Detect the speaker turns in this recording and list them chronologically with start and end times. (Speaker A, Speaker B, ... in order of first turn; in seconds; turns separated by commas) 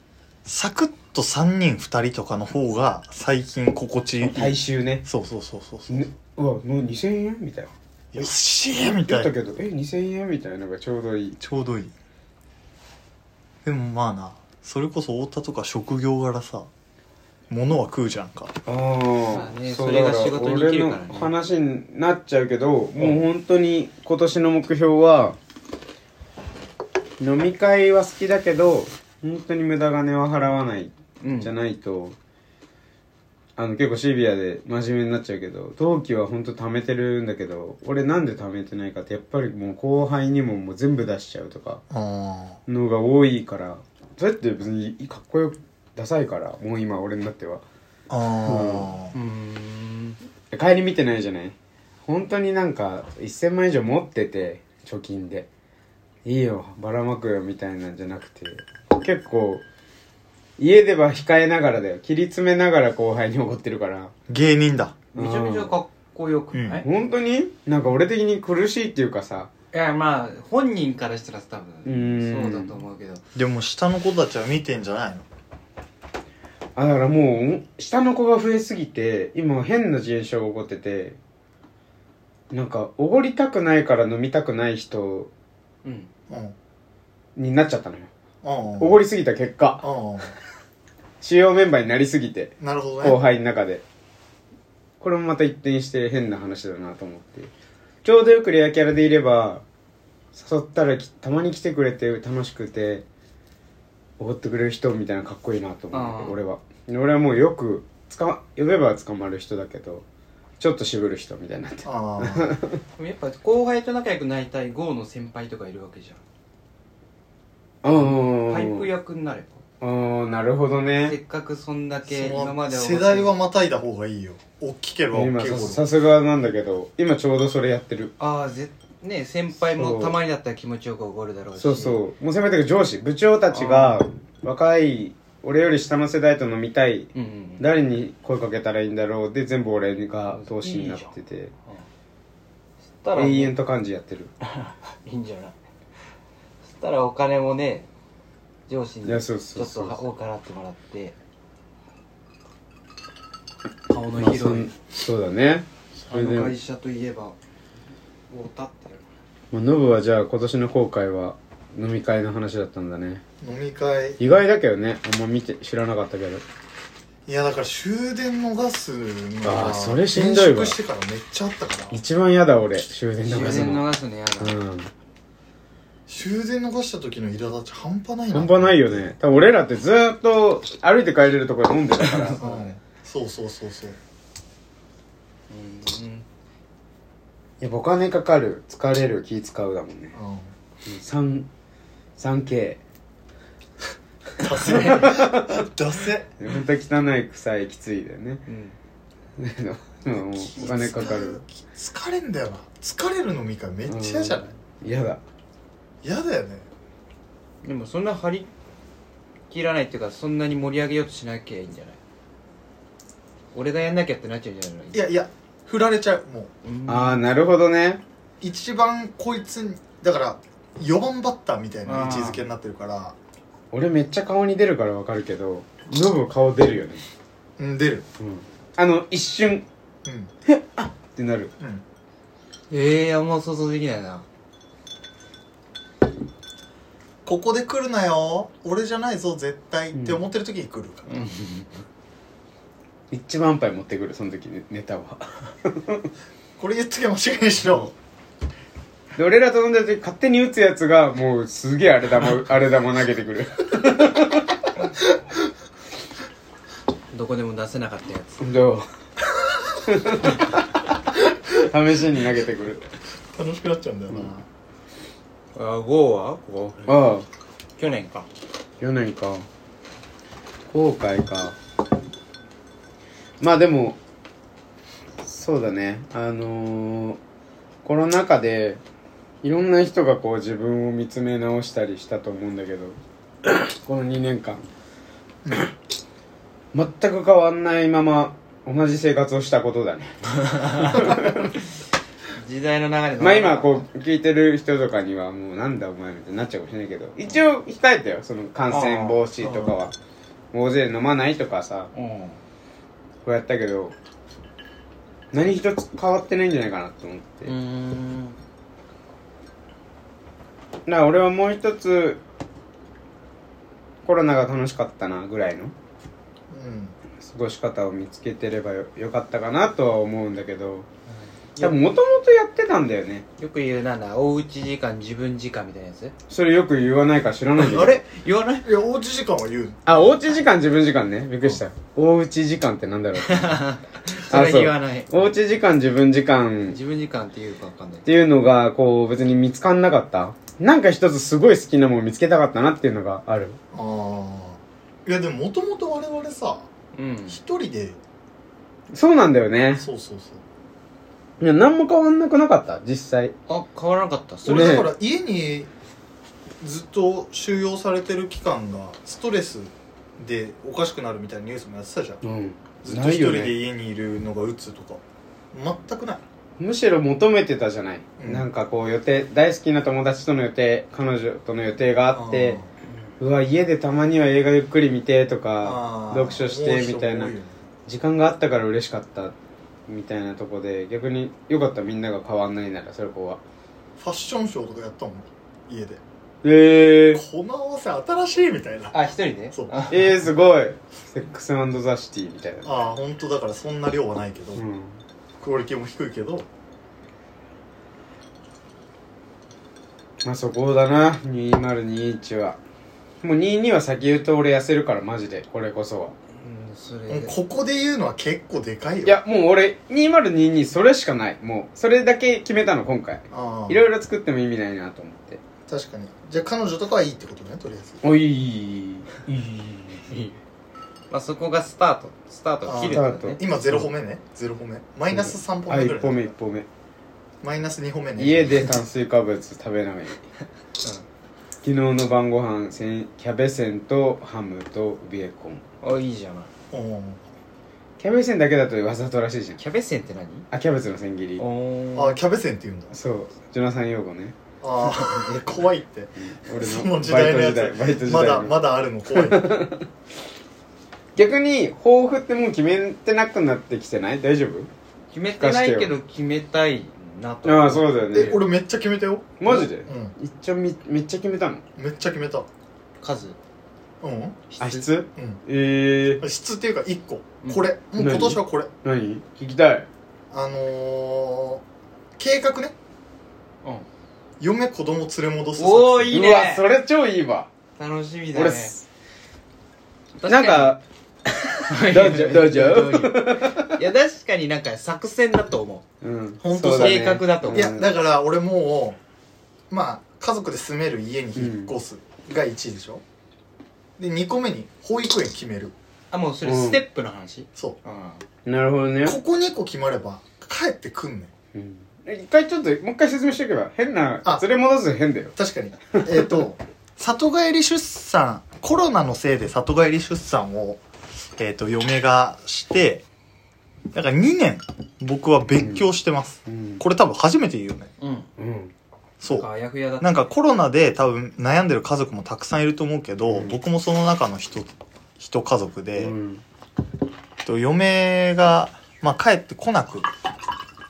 Speaker A: 0.4-6.0, Speaker B: 4.2-5.0, Speaker B: 5.9-11.4, Speaker A: 8.1-9.3, Speaker A: 11.4-11.9, Speaker A: 13.6-16.7, Speaker A: 17.5-18.5, Speaker B: 18.6-25.4, Speaker C: 19.3-21.3, Speaker B: 27.2-32.1, Speaker C: 31.2-31.5, Speaker B: 33.6-41.8, Speaker A: 41.9-42.6, Speaker B: 42.7-47.6, Speaker A: 48.1-49.1, Speaker B: 48.4-48.9, Speaker C: 49.1-50.2, Speaker B: 50.5-55.5, Speaker B: 56.2-59.6, Speaker B: 60.6-64.1, Speaker A: 64.3-65.0, Speaker C: 65.1-66.8, Speaker B: 65.1-65.7, Speaker A: 66.5-66.8, Speaker B: 66.8-69.5, Speaker C: 69.7-73.2, Speaker B: 71.8-72.8, Speaker A: 73.3-75.2, Speaker B: 76.8-81.2, Speaker B: 82.5-85.3, Speaker C: 85.8-86.1, Speaker A: 86.3-86.5, Speaker B: 87.3-88.1, Speaker A: 88.4-89.0, Speaker B: 88.8-89.9, Speaker A: 89.8-90.3, Speaker B: 91.2-93.8, Speaker A: 92.6-93.2, Speaker B: 95.0-97.5, Speaker B: 98.0-99.6, Speaker B: 100.3-103.0, Speaker B: 104.2-110.0, Speaker C: 105.9-106.4, Speaker B: 110.6-112.8, Speaker A: 111.8-112.5, Speaker C: 113.0-116.2, Speaker B: 117.8-118.8, Speaker C: 118.0-119.6, Speaker B: 119.8-121.2, Speaker C: 121.0-123.3, Speaker A: 122.1-125.8, Speaker B: 125.1-128.1, Speaker C: 128.2-132.0, Speaker B: 129.7-130.1, Speaker B: 131.6-141.5, Speaker C: 133.5-134.0, Speaker C: 137.1-137.6, Speaker C: 140.3-141.1, Speaker C: 143.0-143.5, Speaker B: 143.1-144.3, Speaker C: 144.4-145.6, Speaker C: 146.6-147.9, Speaker C: 148.7-151.1, Speaker B: 149.1-150.0, Speaker C: 153.9-154.7, Speaker B: 154.2-156.5, Speaker C: 156.1-157.3, Speaker C: 158.3-159.1, Speaker B: 159.5-163.2, Speaker A: 163.4-164.2, Speaker B: 164.2-166.4, Speaker A: 167.2-172.0, Speaker B: 169.4-170.8, Speaker B: 171.9-173.9, Speaker C: 173.2-174.6, Speaker A: 173.4-173.8, Speaker B: 174.4-174.9, Speaker A: 176.1-179.1, Speaker B: 178.3-182.4, Speaker C: 182.0-182.7, Speaker A: 182.4-184.0, Speaker C: 185.5-186.2, Speaker B: 187.6-190.1, Speaker A: 190.1-190.5, Speaker B: 190.8-191.5, Speaker B: 192.2-192.8, Speaker A: 194.4-196.3, Speaker C: 194.4-195.0, Speaker B: 194.6-195.7, Speaker B: 196.4-198.4, Speaker C: 198.5-198.8, Speaker B: 199.4-201.4, Speaker A: 200.1-204.5, Speaker B: 203.9-205.2, Speaker A: 206.0-206.7, Speaker C: 207.6-208.5, Speaker C: 209.5-212.0, Speaker C: 213.5-215.0, Speaker A: 214.9-216.5, Speaker C: 216.6-217.2, Speaker B: 216.9-218.0, Speaker A: 218.4-223.2, Speaker C: 221.8-222.4, Speaker B: 223.7-227.0, Speaker A: 227.6-228.0, Speaker B: 228.2-229.7, Speaker A: 230.0-230.3, Speaker B: 230.4-231.5, Speaker A: 231.6-231.8, Speaker C: 232.7-234.2, Speaker A: 237.2-241.2, Speaker B: 239.9-240.2, Speaker C: 241.1-241.8, Speaker B: 243.1-246.1, Speaker A: 246.6-247.9, Speaker B: 249.2-254.6, Speaker A: 255.0-255.4, Speaker C: 257.1-258.4, Speaker B: 258.4-258.9, Speaker B: 259.8-260.5, Speaker B: 261.6-262.8, Speaker A: 263.3-264.4, Speaker C: 265.5-267.1, Speaker B: 266.9-267.2, Speaker C: 267.8-268.3, Speaker B: 268.8-269.4, Speaker B: 270.7-271.6, Speaker B: 273.4-274.0, Speaker B: 275.2-277.2, Speaker B: 277.8-278.8, Speaker B: 279.4-284.6, Speaker B: 286.7-291.6, Speaker C: 290.5-291.0, Speaker C: 292.3-293.9, Speaker B: 293.2-299.9, Speaker C: 298.7-299.2, Speaker A: 299.4-299.7, Speaker B: 300.5-301.9, Speaker C: 301.9-302.4, Speaker B: 303.2-303.9, Speaker B: 305.3-307.5, Speaker C: 307.4-308.4, Speaker B: 310.9-312.2, Speaker B: 314.0-315.7, Speaker A: 316.5-316.9, Speaker B: 317.2-320.9, Speaker B: 321.6-323.2, Speaker C: 323.4-326.1, Speaker B: 326.3-328.0, Speaker C: 327.6-328.7, Speaker A: 328.6-330.1, Speaker B: 329.9-333.6, Speaker C: 333.2-335.3, Speaker B: 334.3-336.8, Speaker C: 336.7-338.1, Speaker B: 338.1-343.6, Speaker A: 343.7-346.7, Speaker C: 346.9-347.4, Speaker A: 347.3-348.0, Speaker B: 348.9-349.9, Speaker A: 349.8-350.4, Speaker B: 351.4-353.3, Speaker C: 353.5-354.7, Speaker A: 354.4-355.7, Speaker B: 354.4-354.9, Speaker A: 356.6-362.2, Speaker B: 362.2-363.5, Speaker A: 362.8-366.2, Speaker B: 366.6-372.6, Speaker A: 368.2-368.4, Speaker A: 372.1-372.7, Speaker B: 373.2-377.3, Speaker A: 375.6-377.6, Speaker B: 377.9-379.3, Speaker B: 379.9-383.4, Speaker A: 384.0-386.0, Speaker B: 386.4-387.2, Speaker A: 387.1-389.0, Speaker C: 388.9-390.2, Speaker B: 389.9-392.7, Speaker A: 392.6-394.6, Speaker B: 394.6-395.0, Speaker A: 395.4-396.5, Speaker B: 400.2-402.6, Speaker B: 403.2-406.1, Speaker C: 406.4-407.3, Speaker A: 407.1-409.2, Speaker B: 409.0-415.4, Speaker A: 413.3-413.9, Speaker A: 415.7-418.0, Speaker B: 418.0-420.1, Speaker C: 420.0-420.4, Speaker C: 421.1-423.4, Speaker A: 422.6-426.3, Speaker B: 422.9-423.9, Speaker B: 425.1-426.6, Speaker A: 427.4-428.7, Speaker B: 428.2-430.2, Speaker B: 431.6-435.6, Speaker C: 435.8-436.5, Speaker A: 436.7-437.2, Speaker B: 438.0-439.6, Speaker C: 439.6-440.5, Speaker B: 440.5-441.4, Speaker C: 441.4-442.2, Speaker A: 441.9-442.9, Speaker B: 442.9-444.4, Speaker A: 444.6-449.4, Speaker C: 444.9-445.4, Speaker B: 446.2-449.9, Speaker B: 451.1-454.7, Speaker C: 455.1-457.9, Speaker B: 455.4-455.9, Speaker B: 457.4-458.4, Speaker A: 458.1-460.1, Speaker B: 459.4-461.6, Speaker A: 461.8-462.5, Speaker C: 463.0-463.4, Speaker A: 464.0-464.4, Speaker C: 464.5-464.9, Speaker B: 464.6-466.2, Speaker A: 465.1-465.4, Speaker A: 466.2-468.7, Speaker C: 467.4-467.7, Speaker B: 468.0-469.9, Speaker A: 470.3-471.6, Speaker A: 472.2-472.7, Speaker A: 474.4-476.3, Speaker C: 475.6-476.6, Speaker B: 476.1-477.5, Speaker C: 477.8-478.7, Speaker B: 478.3-478.8, Speaker C: 480.2-480.8, Speaker B: 480.2-480.8, Speaker B: 481.4-483.8, Speaker C: 481.6-485.8, Speaker B: 486.0-487.9, Speaker A: 486.4-486.7, Speaker C: 486.4-487.7, Speaker A: 487.5-489.0, Speaker A: 489.7-493.0, Speaker B: 491.4-491.7, Speaker A: 494.0-495.7, Speaker C: 496.1-498.2, Speaker B: 496.4-496.8, Speaker B: 498.4-499.2, Speaker A: 499.0-501.3, Speaker B: 501.5-505.3, Speaker A: 505.4-510.8, Speaker B: 505.9-506.3, Speaker A: 511.4-513.0, Speaker A: 513.9-517.9, Speaker B: 515.6-515.8, Speaker B: 516.5-516.8, Speaker C: 518.0-518.3, Speaker B: 518.4-518.7, Speaker A: 519.2-519.5, Speaker C: 519.2-520.2, Speaker A: 520.0-526.1, Speaker B: 523.3-523.5, Speaker B: 526.0-526.4, Speaker A: 527.4-530.1